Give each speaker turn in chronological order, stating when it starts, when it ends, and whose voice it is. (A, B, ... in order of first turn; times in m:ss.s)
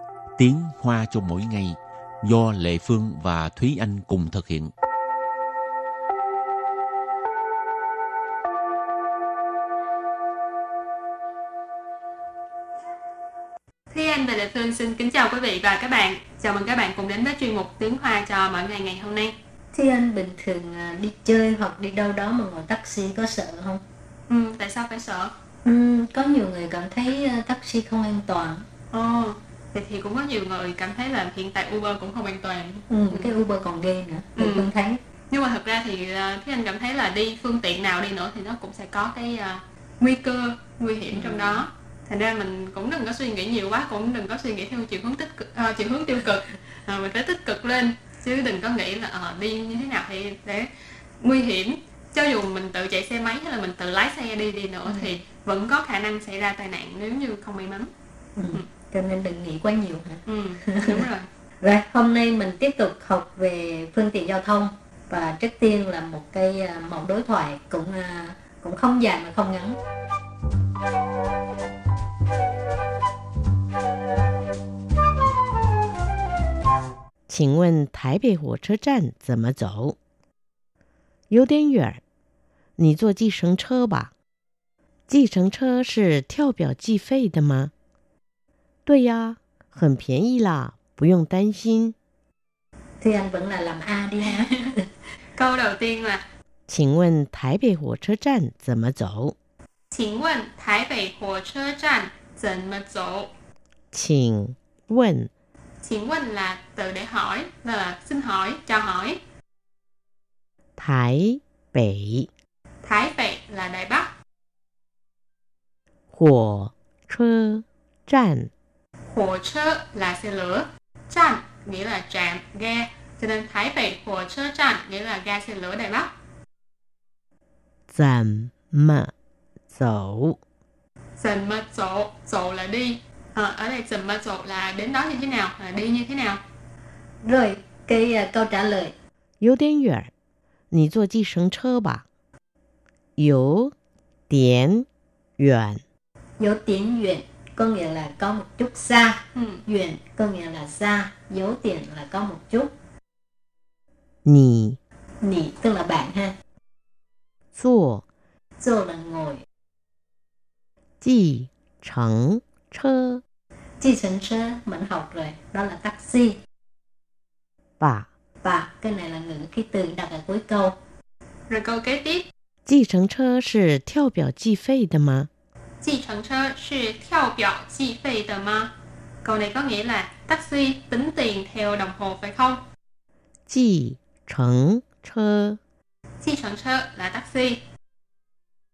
0:00.4-0:04.7 A
0:13.9-0:19.3 B
0:19.7-0:23.8 C
0:24.3-0:25.3 B
0:25.6-0:28.6 C
0:28.9-0:33.3 B
0:32.9-0:35.0 C
0:34.4-0:34.7 B
0:35.3-0:50.7 B
0:41.1-0:41.6 C
0:51.2-0:57.9 B
0:54.9-0:55.1 C
0:58.4-1:01.1 C
1:00.3-1:01.3 B
1:01.6-1:09.8 C
1:17.3-1:20.0 D
1:21.3-1:22.0 D
1:22.8-1:24.1 D
1:25.1-1:27.7 D
1:28.9-1:32.0 D
1:33.0-1:34.8 C
1:35.4-1:36.2 B
1:36.7-1:39.4 D
1:39.9-1:43.3 B
1:43.9-1:45.3 D
1:45.8-1:49.2 B
1:50.8-1:52.3 D
1:52.8-1:54.1 B
1:56.1-1:58.5 D
1:59.1-2:06.1 B
2:07.9-2:09.1 D
2:09.7-2:10.4 D
2:11.2-2:16.4 B
2:17.2-2:18.9 C
2:19.4-2:20.1 D
2:20.7-2:22.0 D
2:23.2-2:23.7 D
2:24.3-2:24.9 D
2:25.4-2:25.8 D
2:26.4-2:32.7 C
2:29.4-2:29.6 B
2:34.2-2:34.8 D
2:35.2-2:36.3 C
2:37.6-2:38.0 D
2:38.6-2:39.4 C
2:41.0-2:43.2 D
2:43.8-2:46.4 C
2:47.8-2:48.1 D
2:48.4-2:50.8 C
2:51.5-2:52.3 B
2:52.7-2:55.3 D
2:55.8-2:58.7 B
2:59.2-3:02.6 B
3:03.5-3:05.6 D
3:06.2-3:07.6 B